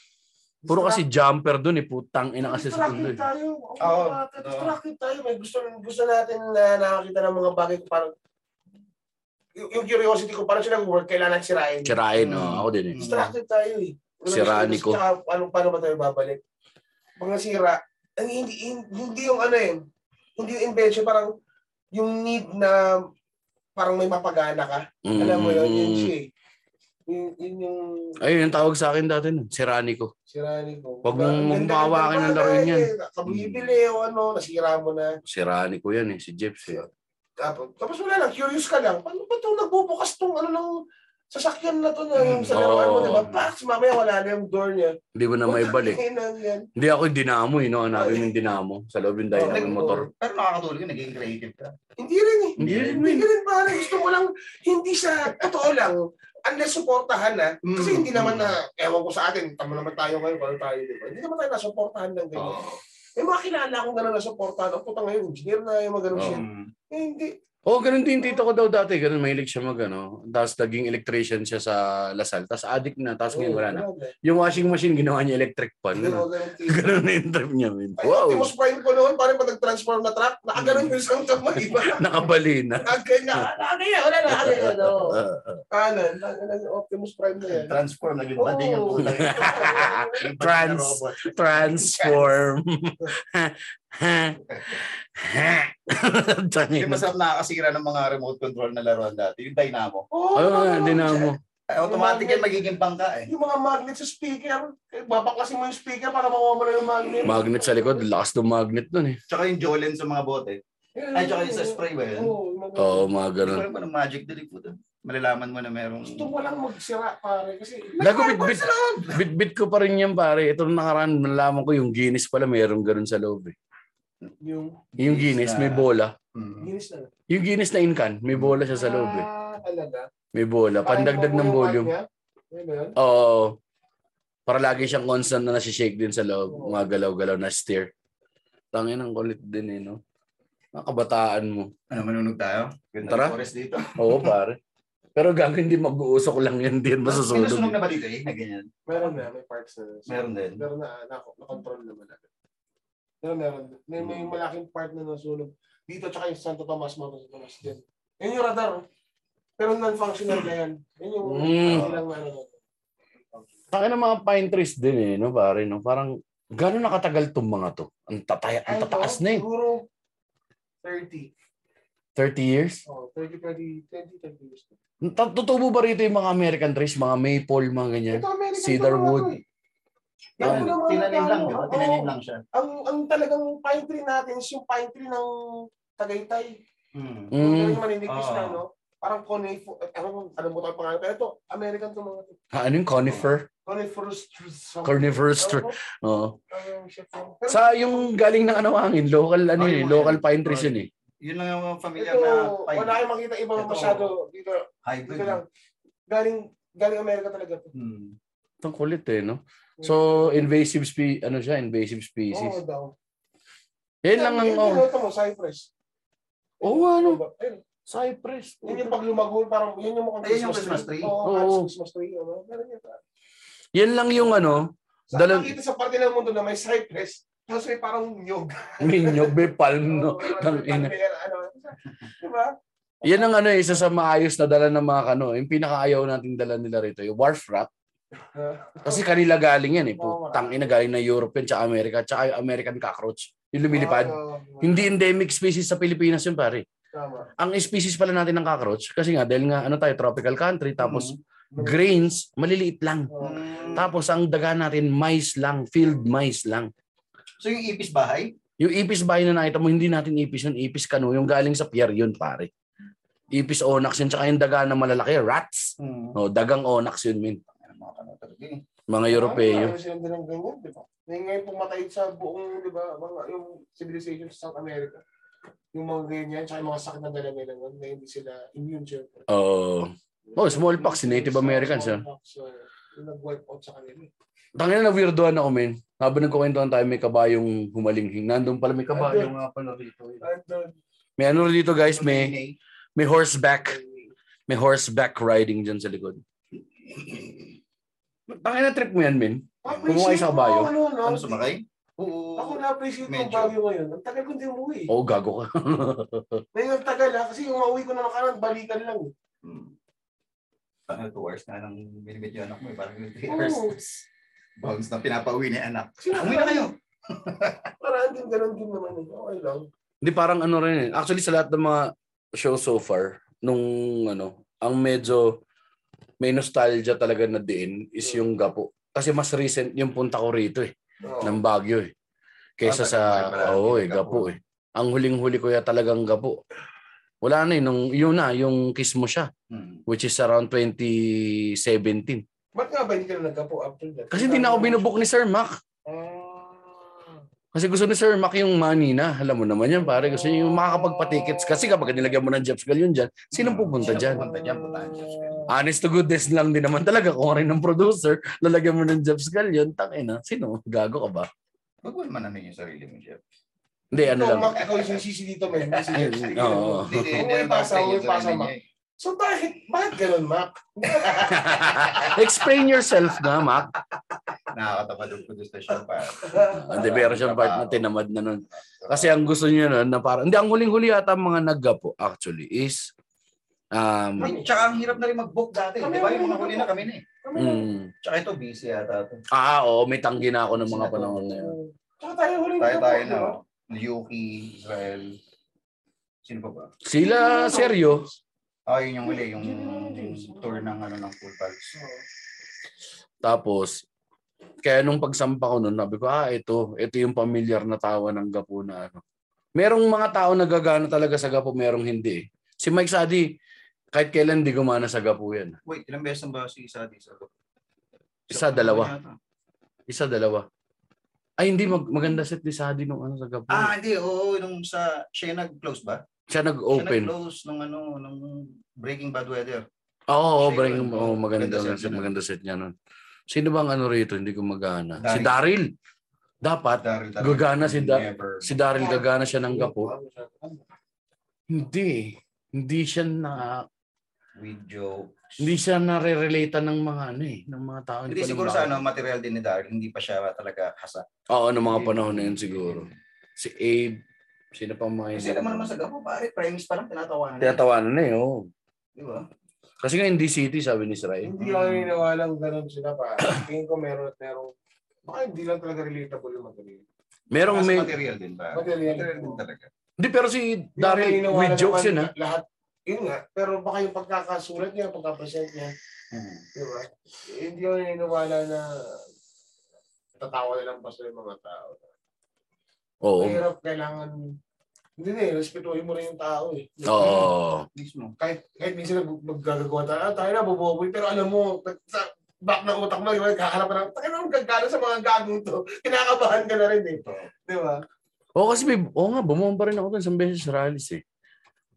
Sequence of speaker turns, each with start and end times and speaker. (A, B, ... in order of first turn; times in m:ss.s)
0:00.6-0:01.0 A
0:00.7-0:03.2 B
0:02.4-0:08.1 A
0:03.8-0:04.7 C
0:09.6-0:12.0 A
0:11.8-0:13.0 B
0:12.2-0:13.3 C
0:13.0-0:16.4 A
0:14.3-0:15.0 B
0:17.2-0:19.8 A
0:20.4-0:21.3 A
0:21.9-0:23.0 A
0:23.8-0:26.3 A
0:25.0-0:26.1 B
0:27.1-0:28.2 A
0:28.2-0:30.1 B
0:30.3-0:35.1 A
0:31.0-0:32.9 B
0:33.3-0:33.7 C
0:35.3-0:36.8 B
0:37.4-0:40.8 A
0:41.3-0:46.7 A
0:42.2-0:43.4 C
0:42.5-0:43.3 B
0:45.2-0:46.0 B
0:46.8-0:50.1 B
0:47.9-0:48.3 A
0:49.3-0:50.0 A
0:49.5-0:51.7 C
0:52.0-1:02.6 A
0:52.6-0:53.0 C
0:52.6-0:53.3 B
0:57.6-0:58.6 C
1:02.4-1:02.8 C
1:03.2-1:07.3 A
1:06.2-1:06.4 B
1:06.2-1:06.7 C
1:07.7-1:18.5 B
1:13.3-1:14.1 A
1:16.0-1:16.9 A
1:18.0-1:22.2 A
1:20.6-1:20.9 C
1:21.9-1:23.4 B
1:22.8-1:25.2 A
1:24.3-1:25.6 B
1:25.7-1:27.8 A
1:27.5-1:32.3 C
1:28.4-1:30.3 A
1:29.0-1:37.1 B
1:34.4-1:34.8 C
1:36.8-1:40.1 C
1:40.1-1:42.5 A
1:40.4-1:41.4 B
1:41.7-1:43.3 C
1:43.3-1:48.1 A
1:47.2-1:49.2 B
1:49.3-1:50.6 C
1:51.0-1:53.1 A
1:51.1-1:52.3 C
1:52.8-1:53.6 B
1:53.4-1:56.3 C
1:56.0-1:58.7 A
1:58.0-2:03.6 B
1:58.3-1:59.2 C
2:04.4-2:04.8 A
2:05.0-2:06.7 C
2:05.0-2:06.1 B
2:06.6-2:07.1 A
2:07.3-2:09.3 B
2:08.3-2:08.6 C
2:08.7-2:10.1 A
2:10.3-2:11.9 B
2:10.8-2:13.0 A
2:13.0-2:13.6 B
2:14.5-2:17.9 B
2:16.5-2:16.8 A
2:18.7-2:20.0 B
2:20.8-2:21.7 B
2:21.9-2:24.4 C
2:23.1-2:23.4 B
2:24.0-2:24.6 B
2:25.2-2:27.8 B
2:27.0-2:29.2 C
2:28.9-2:32.3 A
2:30.1-2:30.6 C
2:33.2-2:38.8 A
2:34.0-2:34.3 C
2:39.6-2:42.6 A
2:41.2-2:41.9 B
2:41.7-2:42.0 C
2:43.7-2:49.4 B
2:48.7-2:49.8 A
2:50.8-2:51.3 A
2:52.2-2:52.8 B
2:52.9-2:54.8 A
2:55.0-2:59.4 B
2:58.1-2:59.4 A
3:00.4-3:05.3 A
3:00.4-3:00.8 B
3:00.4-3:02.4 C
3:06.0-3:06.6 A
3:06.9-3:07.3 C
3:07.3-3:07.8 B
3:07.4-3:12.4 A
3:08.1-3:08.6 C
3:12.5-3:13.5 B
3:13.7-3:15.8 A
3:14.8-3:16.4 B
3:16.5-3:18.1 A
3:17.5-3:20.9 B
3:19.6-3:23.0 C
3:22.0-3:25.5 A
3:23.6-3:24.1 C
3:24.8-3:25.4 C
3:26.1-3:27.7 A
3:27.7-3:28.2 C
3:28.6-3:32.6 B
3:29.8-3:30.4 A
3:32.3-3:32.9 A
3:34.0-3:34.9 B
3:34.1-3:35.7 A
3:36.6-3:37.6 A
3:36.6-3:37.2 B
3:37.9-3:39.0 B
3:38.6-3:43.0 A
3:40.2-3:41.2 C
3:41.2-3:41.7 B
3:43.8-3:45.5 B
3:44.2-3:44.6 A
3:45.1-3:52.5 A
3:48.8-3:50.9 B
3:53.0-3:57.7 B
3:58.3-3:59.1 A
3:58.8-4:06.6 B
4:00.0-4:00.8 A
4:03.7-4:04.9 A
4:07.0-4:07.3 A
4:07.4-4:13.1 B
4:10.8-4:11.2 C
4:11.5-4:11.9 A
4:13.1-4:13.8 A
4:13.2-4:13.9 C
4:13.8-4:16.7 B
4:17.4-4:18.3 C
4:18.6-4:22.5 B
4:23.3-4:27.4 B
4:25.8-4:26.2 C
4:27.5-4:28.6 C
4:28.9-4:29.8 B
4:29.1-4:35.0 A
4:35.7-4:39.3 A
4:39.3-4:42.0 B
4:40.3-4:44.1 A
4:44.6-4:50.2 B
4:48.9-4:49.3 A
4:50.2-4:50.7 A
4:51.2-4:52.4 B
4:51.9-4:52.6 C
4:53.0-4:53.8 B
4:53.7-4:54.1 A
4:54.5-4:56.2 B
4:56.8-4:57.5 C
4:58.3-5:00.7 B
4:59.6-5:01.5 A
4:59.6-5:00.0 C
5:01.0-5:03.5 C
5:02.4-5:04.9 A
5:04.9-5:06.4 B
5:06.6-5:09.1 A
5:09.4-5:09.7 C
5:10.9-5:13.7 C
5:13.3-5:14.0 A
5:14.6-5:17.7 C
5:16.0-5:16.7 A
5:17.8-5:19.7 A
5:20.0-5:25.4 B
5:26.2-5:31.9 B
5:31.0-5:31.4 A
5:32.6-5:36.4 B
5:32.6-5:34.4 C
5:37.2-5:39.3 B
5:39.5-5:39.8 C
5:39.9-5:42.2 B
5:42.6-5:44.9 A
5:44.1-5:45.6 B
5:45.9-5:47.2 A
5:47.5-5:54.2 B
5:49.8-5:52.1 A
5:53.3-5:55.5 C
5:53.8-5:55.5 A
5:55.5-6:01.3 B
6:01.8-6:03.2 C
6:03.9-6:04.6 B
6:04.0-6:12.3 A
6:04.6-6:05.0 C
6:05.5-6:08.6 C
6:06.0-6:07.2 B
6:11.3-6:13.7 B
6:14.5-6:17.8 C
6:16.2-6:16.7 A
6:16.5-6:22.9 B
6:18.8-6:19.1 C
6:23.7-6:24.4 B
6:24.2-6:27.0 C
6:24.2-6:24.5 A
6:25.8-6:27.7 A
6:27.4-6:27.9 B
6:28.0-6:29.2 C
6:29.3-6:31.5 B
6:30.6-6:33.4 A
6:32.6-6:35.2 C
6:36.2-6:36.7 C
6:36.8-6:38.0 B
6:37.0-6:38.2 A
6:38.7-6:41.7 C
6:39.0-6:40.7 A
6:41.7-6:42.0 A
6:43.2-6:43.8 B
6:44.6-6:49.0 B
6:49.6-6:53.3 B
6:53.9-6:55.6 B
6:55.7-6:57.3 C
6:58.3-6:59.2 C
6:58.3-6:58.9 B
6:59.9-7:00.5 B
7:01.4-7:03.7 B
7:03.5-7:06.0 C
7:06.3-7:07.1 B
7:06.7-7:09.7 C
7:10.1-7:12.7 B
7:10.4-7:12.1 C
7:13.3-7:15.7 B
7:15.0-7:15.4 C
7:16.4-7:19.9 B
7:16.8-7:18.6 C
7:18.7-7:20.6 A
7:21.5-7:23.6 B
7:24.4-7:25.6 C
7:25.4-7:28.8 B
7:28.1-7:31.1 C
7:31.3-7:34.0 B
7:31.6-7:32.9 C
7:34.6-7:35.7 B
7:35.1-7:37.6 C
7:37.4-7:38.5 B
7:39.0-7:39.3 C
7:39.8-7:41.3 B
7:41.2-7:44.5 A
7:41.4-7:42.0 C
7:45.1-7:46.8 A
7:47.3-7:47.9 B
7:47.4-7:49.7 C
7:48.5-7:49.4 A
7:50.0-7:52.1 B
7:50.8-7:55.7 A
7:56.1-7:56.5 C
7:56.6-7:58.7 A
8:00.2-8:01.9 A
8:03.0-8:03.4 B
8:03.2-8:04.1 A
8:05.0-8:07.3 A
8:06.9-8:07.7 B
8:07.7-8:08.2 C
8:08.2-8:17.8 A
8:17.0-8:17.3 C
8:18.4-8:21.0 B